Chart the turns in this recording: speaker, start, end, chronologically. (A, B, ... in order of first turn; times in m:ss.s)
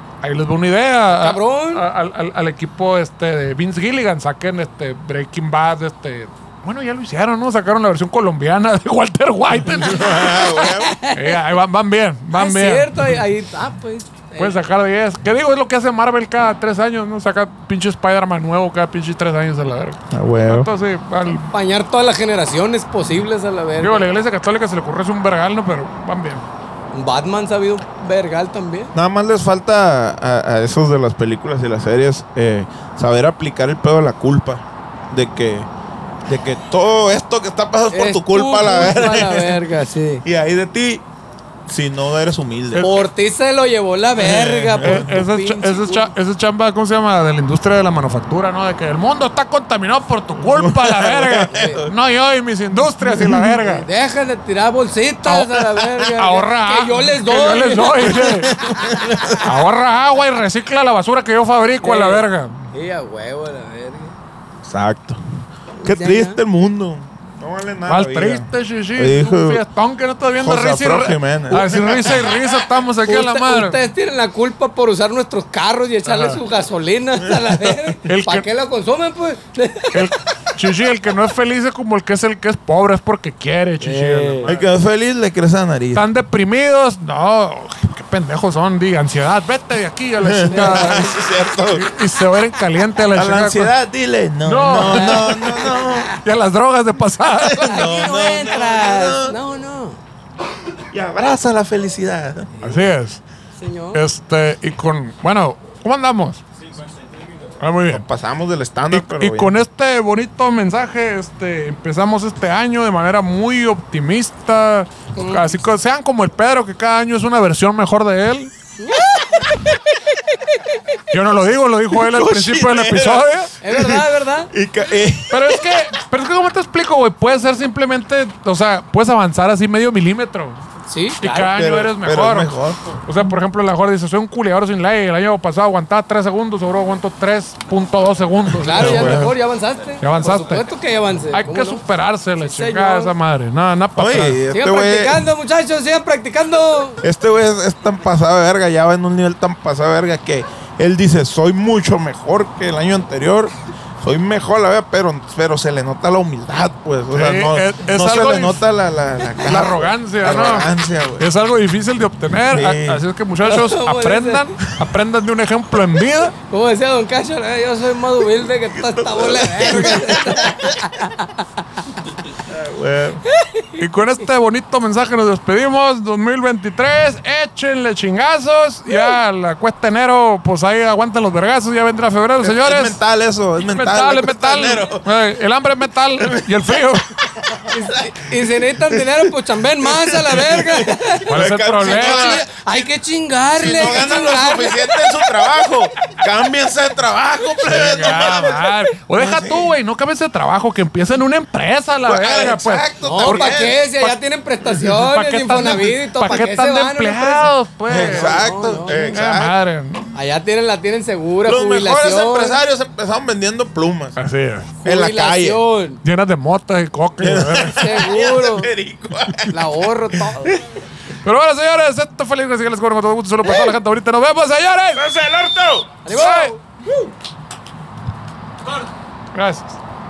0:00.2-0:10.3 A
0:01.1-0:01.8 B
0:09.6-0:11.0 C
0:09.9-0:11.4 B
0:11.1-0:13.2 A
0:12.3-0:14.6 B
0:14.4-0:21.5 A
0:20.1-0:20.7 C
0:21.5-0:24.1 B
0:23.8-0:26.4 A
0:26.9-0:28.9 B
0:28.9-0:35.7 C
0:36.3-0:39.6 C
0:37.9-0:40.2 B
0:40.2-0:41.0 C
0:41.7-0:42.9 C
0:42.8-0:43.1 A
0:42.8-0:46.1 B
0:44.2-0:45.2 C
0:44.3-0:53.8 A
0:50.4-0:51.9 C
0:51.5-0:51.8 B
0:53.0-0:53.6 C
0:53.6-0:59.2 B
0:55.3-0:58.5 A
0:58.0-0:59.5 C
0:59.4-1:02.6 A
1:01.8-1:04.1 B
1:04.6-1:05.2 C
1:05.8-1:06.4 B
1:05.8-1:09.6 C
1:07.9-1:13.8 A
1:10.4-1:12.3 C
1:13.0-1:20.1 B
1:16.1-1:16.4 A
1:17.2-1:17.5 C
1:18.0-1:18.5 A
1:19.9-1:24.7 A
1:23.8-1:24.5 B
1:24.5-1:26.1 C
1:25.9-1:31.1 A
1:30.2-1:31.9 C
1:30.5-1:31.1 B
1:31.7-1:33.7 A
1:33.1-1:36.2 C
1:34.4-1:35.6 A
1:34.9-1:36.2 B
1:36.2-1:38.0 A
1:37.4-1:39.4 C
1:37.5-1:40.0 B
1:40.9-1:42.5 C
1:42.6-1:42.8 B
1:42.6-1:43.2 A
1:43.6-1:44.0 B
1:43.9-1:46.4 A
1:47.6-1:48.0 A
1:47.9-1:49.5 C
1:48.9-1:58.5 A
1:55.2-1:55.6 B
1:58.8-1:59.6 B
2:01.1-2:03.5 A
2:02.0-2:05.7 C
2:03.6-2:04.5 B
2:05.3-2:10.6 A
2:10.9-2:11.5 B
2:11.2-2:19.4 A
2:11.4-2:12.8 C
2:18.6-2:21.8 B
2:18.7-2:19.3 C
2:20.0-2:20.7 A
2:21.3-2:24.4 A
2:22.4-2:23.1 B
2:24.0-2:25.3 C
2:24.5-2:27.0 B
2:27.0-2:41.3 C
2:37.1-2:38.6 A
2:39.4-2:46.4 A
2:42.5-2:43.0 C
2:43.4-2:44.6 B
2:46.5-2:51.5 B
2:48.7-2:50.9 C
2:52.5-2:53.2 C
2:53.3-2:53.9 B
2:53.8-3:03.0 A
3:02.4-3:05.1 C
3:03.6-3:07.1 A
3:06.2-3:12.9 C
3:07.7-3:15.2 B
3:11.3-3:12.4 A
3:13.5-3:19.8 C
3:17.6-3:24.2 A
3:22.0-3:23.8 C
3:23.0-3:29.2 B
3:24.7-3:30.1 A
3:27.9-3:29.6 C
3:30.1-3:32.6 B
3:31.4-3:34.2 C
3:34.2-3:34.7 A
3:34.8-3:35.6 C
3:34.8-3:36.0 B
3:36.0-3:38.1 A
3:37.2-3:39.6 C
3:37.7-3:38.7 B
3:39.5-3:40.6 B
3:40.1-3:40.6 C
3:41.2-3:45.0 A
3:44.9-3:46.0 C
3:46.0-3:47.1 B
3:46.1-3:46.6 A
3:49.3-3:49.8 A